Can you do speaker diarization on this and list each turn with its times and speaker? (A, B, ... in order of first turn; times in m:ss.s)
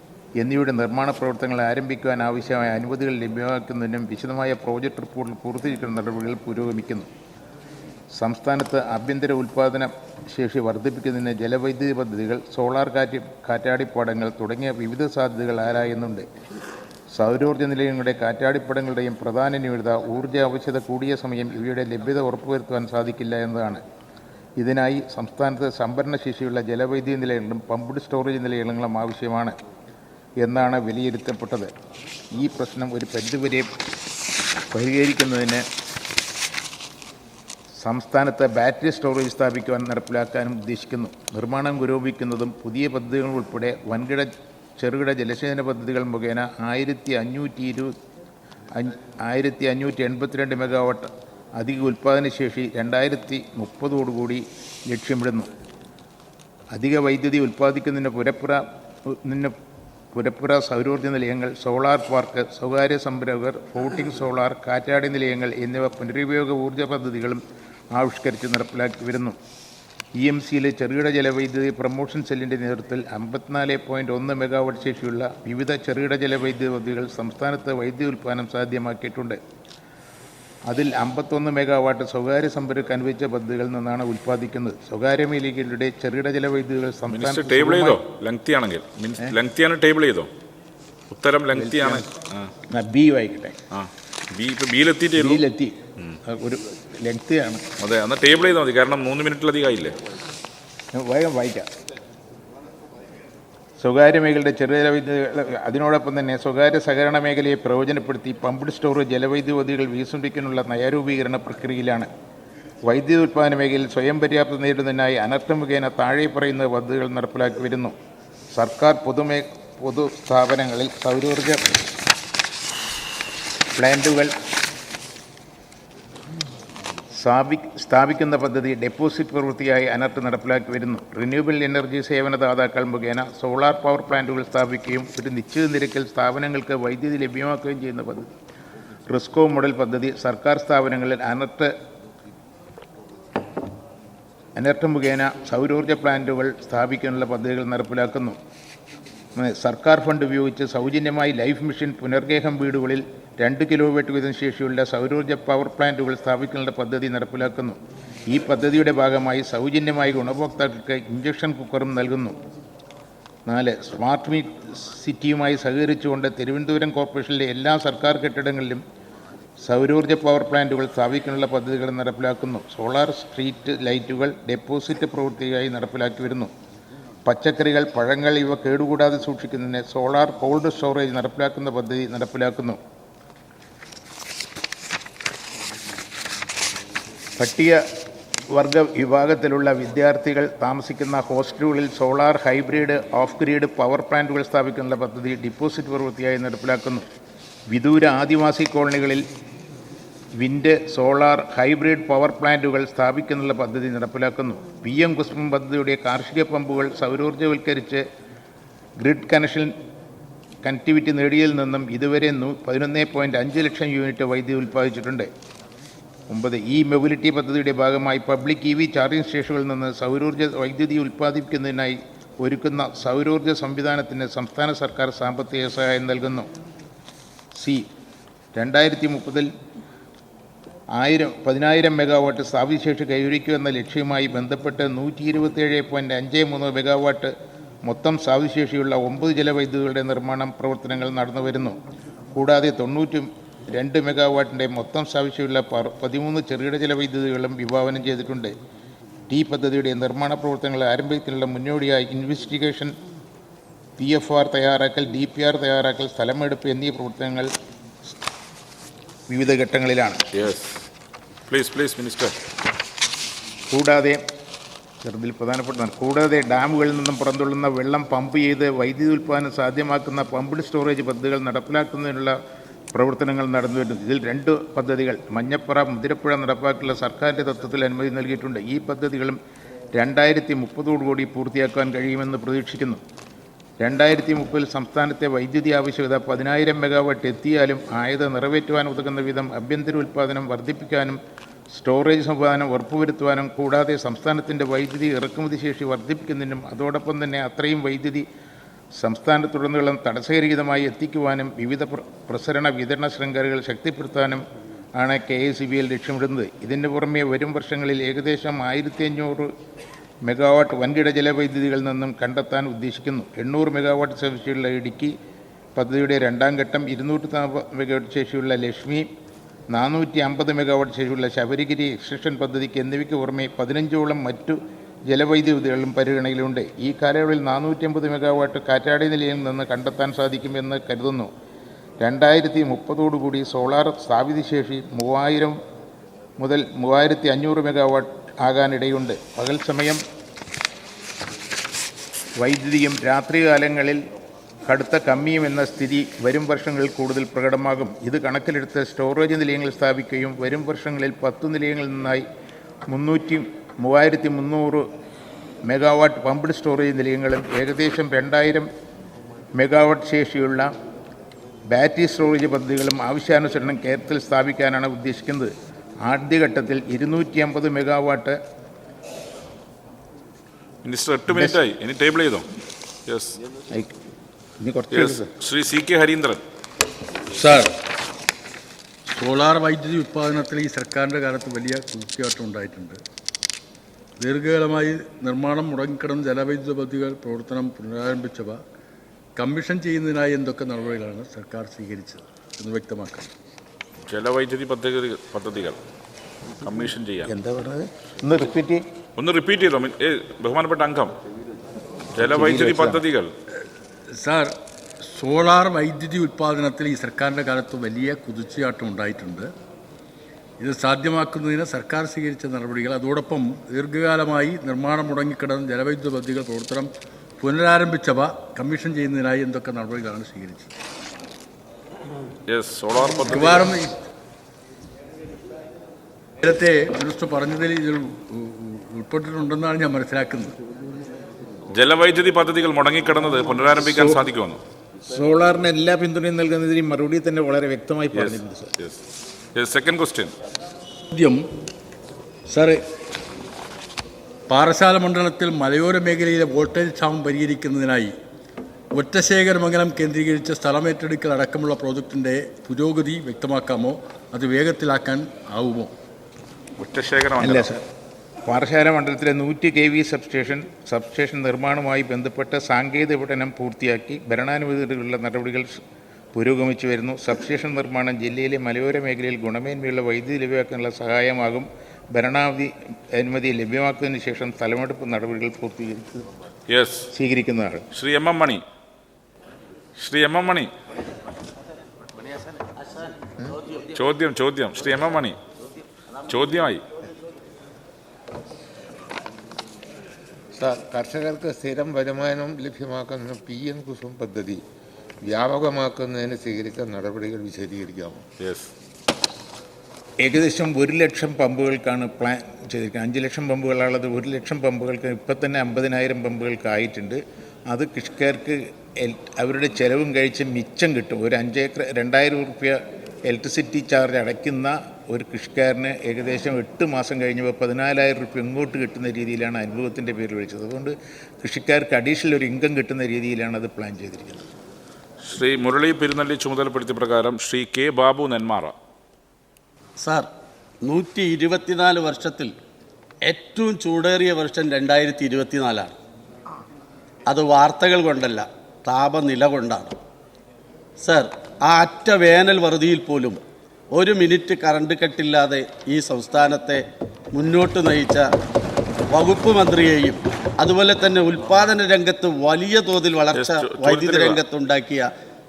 0:00.4-0:07.1 A
0:08.1-0:16.3 A
0:17.1-0:23.8 A
0:24.6-0:29.6 A
0:30.4-0:31.7 A
0:32.4-0:33.7 A
0:34.7-0:35.6 A
0:37.8-0:47.9 A
0:48.7-0:55.5 A
0:56.7-0:59.5 A
1:00.1-1:09.4 A
1:10.2-1:19.4 A
1:20.7-1:28.0 A
1:27.1-1:30.3 B
1:31.1-1:32.5 B
1:31.5-1:32.1 A
1:32.7-1:33.6 A
1:33.7-1:35.4 B
1:35.2-1:37.6 A
1:37.8-1:40.0 B
1:40.9-1:41.7 A
1:43.8-1:52.1 A
1:52.8-1:58.0 A
1:58.5-2:01.7 A
2:03.8-2:04.3 A
2:07.2-2:18.3 A
2:19.1-2:21.7 A
2:24.6-2:28.4 A
2:29.4-2:42.4 A
2:43.5-2:48.8 A
2:49.6-2:56.5 A
2:57.2-3:02.8 A
3:07.4-3:07.8 A
3:08.5-3:17.1 A
3:17.7-3:19.2 A
3:20.4-3:28.0 A
3:29.0-3:29.8 A
3:30.6-3:35.3 A
3:36.3-3:46.5 A
3:47.6-3:47.9 A
3:48.6-3:49.5 A
3:51.0-3:57.3 A
3:57.8-4:01.8 A
4:02.3-4:08.5 A
4:09.3-4:12.9 A
4:14.0-4:17.5 A
4:19.3-4:20.2 A
4:20.3-4:20.8 B
4:21.5-4:22.4 B
4:23.7-4:24.2 A
4:25.0-4:32.4 A
4:32.9-4:39.4 A
4:39.9-4:43.0 A
4:43.8-4:51.2 A
4:51.7-4:58.3 A
4:59.0-5:04.4 A
5:05.0-5:09.5 A
5:10.2-5:15.2 A
5:15.8-5:19.1 A
5:19.7-5:31.3 A
5:32.0-5:35.6 A
5:36.4-5:40.0 A
5:42.4-5:44.0 A
5:44.7-5:52.2 A
5:52.9-5:54.8 A
5:55.7-5:58.7 A
5:59.6-6:00.7 A
6:01.7-6:05.5 A
6:06.0-6:08.4 A
6:10.8-6:12.5 B
6:11.3-6:11.6 A
6:13.1-6:13.4 B
6:14.6-6:15.3 A
6:14.9-6:16.4 B
6:17.4-6:17.8 C
6:19.1-6:23.0 C
6:24.2-6:28.6 C
6:29.4-6:33.3 C
6:34.1-6:35.8 B
6:36.6-6:37.3 B
6:37.3-6:38.8 A
6:39.2-6:41.2 B
6:42.2-6:43.3 B
6:42.2-6:43.0 A
6:44.1-6:49.5 C
6:50.6-7:00.7 C
7:02.5-7:03.8 B
7:03.3-7:04.0 C
7:06.4-7:10.5 C
7:11.7-7:14.6 B
7:13.8-7:14.2 C
7:15.1-7:18.7 A
7:18.1-7:19.0 B
7:19.6-7:20.3 B
7:21.1-7:21.4 C
7:22.5-7:22.8 C
7:24.5-7:28.1 C
7:28.9-7:35.9 C
7:36.8-7:37.8 B
7:37.4-7:37.8 A
7:38.4-7:45.8 A
7:46.3-7:56.2 A
7:56.7-7:57.1 B
7:57.1-7:57.8 A
7:57.9-7:58.6 B
8:00.0-8:00.7 B
8:04.0-8:05.4 B
8:06.3-8:06.8 B
8:10.6-8:14.6 D
8:15.2-8:18.2 D
8:18.4-8:18.7 B
8:20.2-8:44.4 A
8:45.2-8:48.7 B
8:50.0-8:50.3 E
8:50.8-8:52.5 E
8:53.3-8:56.0 E
8:57.3-9:00.0 E
9:01.0-9:06.8 E
9:07.3-9:08.3 E
9:09.1-9:15.1 E
9:13.3-9:14.4 B